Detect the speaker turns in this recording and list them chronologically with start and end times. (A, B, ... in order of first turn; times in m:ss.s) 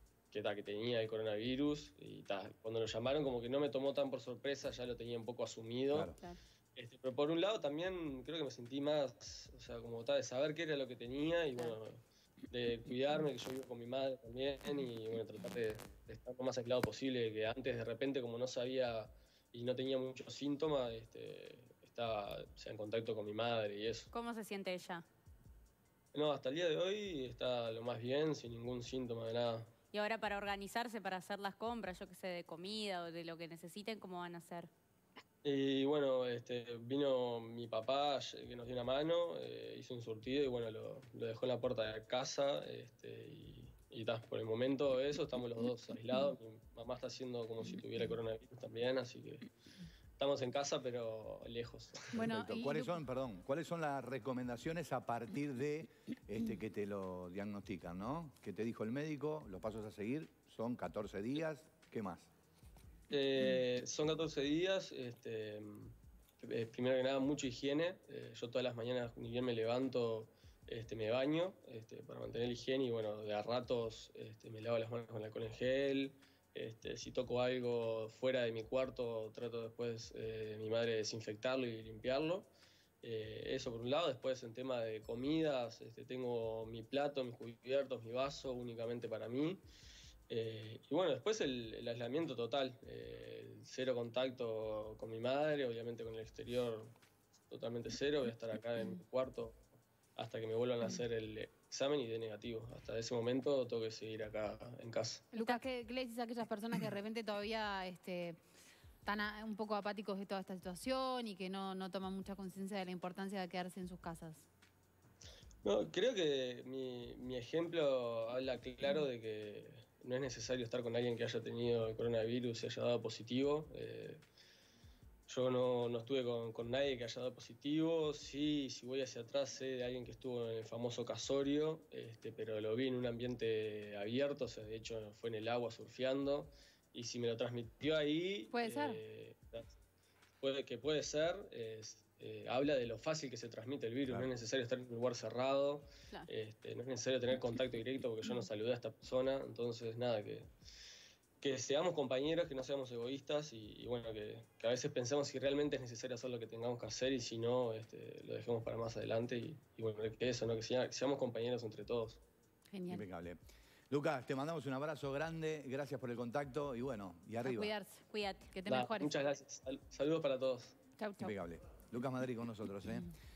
0:00.3-0:06.1 A
0:05.9-0:06.2 B
0:06.8-0:24.1 A
0:24.1-0:25.0 C
0:26.1-0:29.7 A
0:29.9-0:34.7 C
0:35.4-0:49.5 A
0:50.2-0:52.2 A
0:52.1-0:53.0 D
0:52.2-1:02.3 B
1:03.1-1:22.5 A
1:23.0-1:29.6 A
1:30.3-1:36.9 A
1:37.5-1:39.6 A
1:40.2-1:45.3 A
1:45.3-1:48.4 D
1:49.0-1:54.4 D
1:55.6-2:04.2 A
2:05.3-2:19.7 A
2:18.5-2:19.0 D
2:20.4-2:30.5 A
2:31.4-2:42.2 A
2:42.7-2:43.0 D
2:42.9-2:47.7 B
2:47.4-2:49.1 D
2:48.1-2:48.5 C
2:48.7-2:50.8 A
2:51.0-2:51.3 D
2:51.2-2:53.1 B